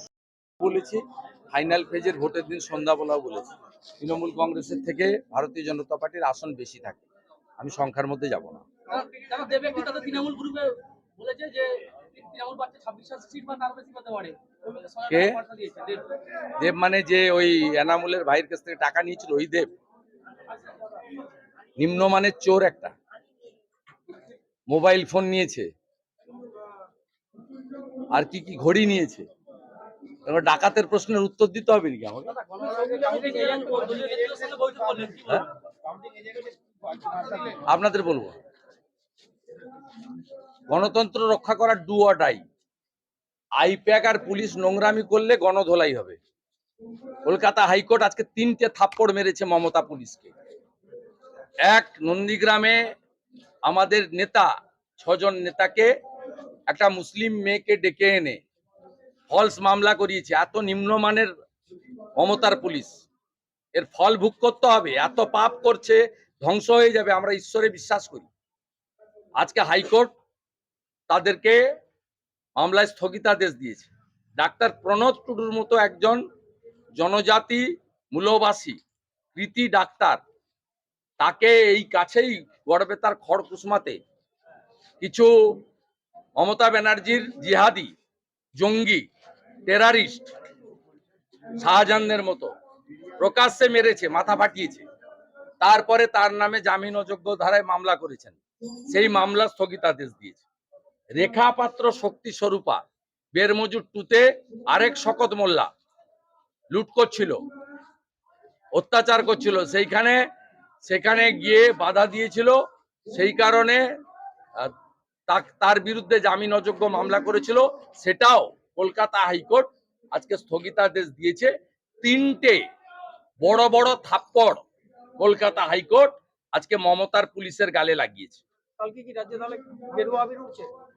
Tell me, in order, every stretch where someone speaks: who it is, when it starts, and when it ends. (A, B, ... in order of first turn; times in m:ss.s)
0:00.6-0:07.0 A
0:07.6-0:08.6 A
0:09.0-0:16.0 B
0:15.0-0:15.4 A
0:16.6-0:19.7 A
0:21.8-0:22.9 A
0:24.7-0:25.7 A
0:28.1-0:29.3 A
0:30.3-0:32.4 A
0:32.5-0:35.2 B
0:37.0-0:37.6 B
0:37.6-0:38.4 A
0:40.7-0:42.4 A
0:43.6-0:46.2 A
0:47.2-0:50.3 A
0:51.6-0:52.8 A
0:53.6-0:55.9 A
0:56.7-0:58.4 A
0:59.3-1:01.3 A
1:02.2-1:03.0 A
1:03.7-1:08.3 A
1:09.4-1:10.1 A
1:11.1-1:11.6 A
1:12.6-1:16.2 A
1:17.0-1:18.8 A
1:19.3-1:20.2 A
1:21.2-1:24.0 A
1:25.0-1:25.6 A
1:26.4-1:27.9 A
1:28.6-1:29.1 A
1:29.6-1:30.2 A
1:31.6-1:32.5 A
1:33.2-1:34.8 A
1:35.6-1:40.4 A
1:41.1-1:42.8 A
1:43.3-1:45.7 A
1:46.7-1:47.4 A
1:48.7-1:50.3 A
1:50.8-1:52.6 A
1:53.1-1:53.8 A
1:55.3-2:02.6 A
2:03.4-2:04.6 A
2:05.2-2:08.4 A
2:08.8-2:10.7 B